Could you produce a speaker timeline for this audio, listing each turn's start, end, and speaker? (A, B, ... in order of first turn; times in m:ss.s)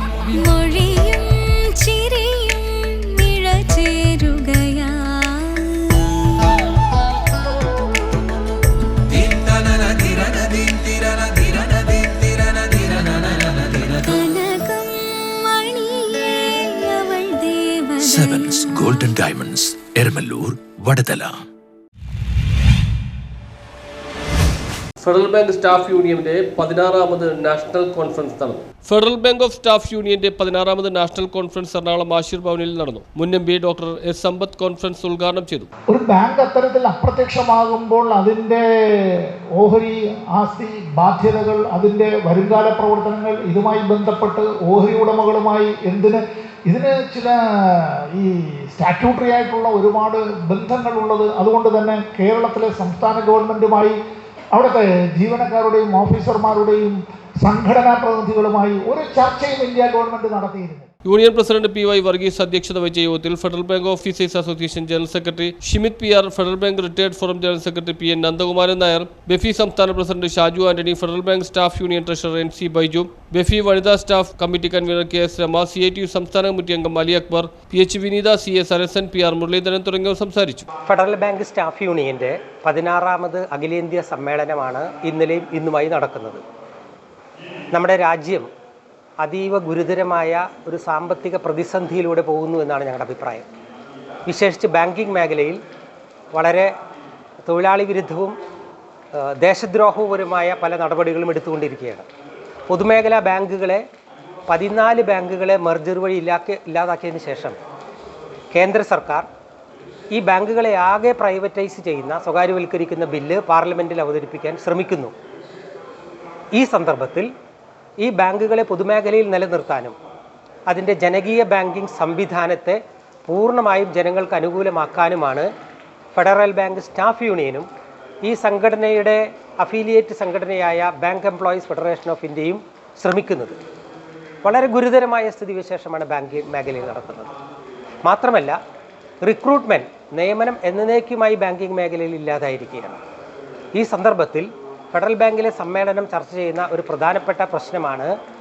0:00.3-0:06.7 A
0:09.1-0:13.9 B
0:13.8-0:18.8 A
0:18.0-0:21.4 B
0:25.0-0:35.7 C
0:35.9-0:54.0 D
0:54.5-1:00.9 D
1:01.0-1:20.7 C
1:20.8-1:26.4 E
1:27.7-1:28.5 E
1:29.2-1:33.5 E
1:34.3-1:35.6 E
1:36.3-1:36.7 E
1:37.4-1:38.3 E
1:39.2-1:42.1 E
1:42.7-1:43.8 E
1:44.5-1:47.6 E
1:48.5-1:49.3 E
1:50.1-1:55.1 E
1:56.5-1:57.3 E
1:58.0-2:00.0 E
2:00.7-2:05.5 E
2:06.2-2:07.7 E
2:08.2-2:13.6 E
2:14.4-2:17.3 E
2:18.0-2:18.6 E
2:19.2-2:23.0 E
2:23.7-2:28.1 E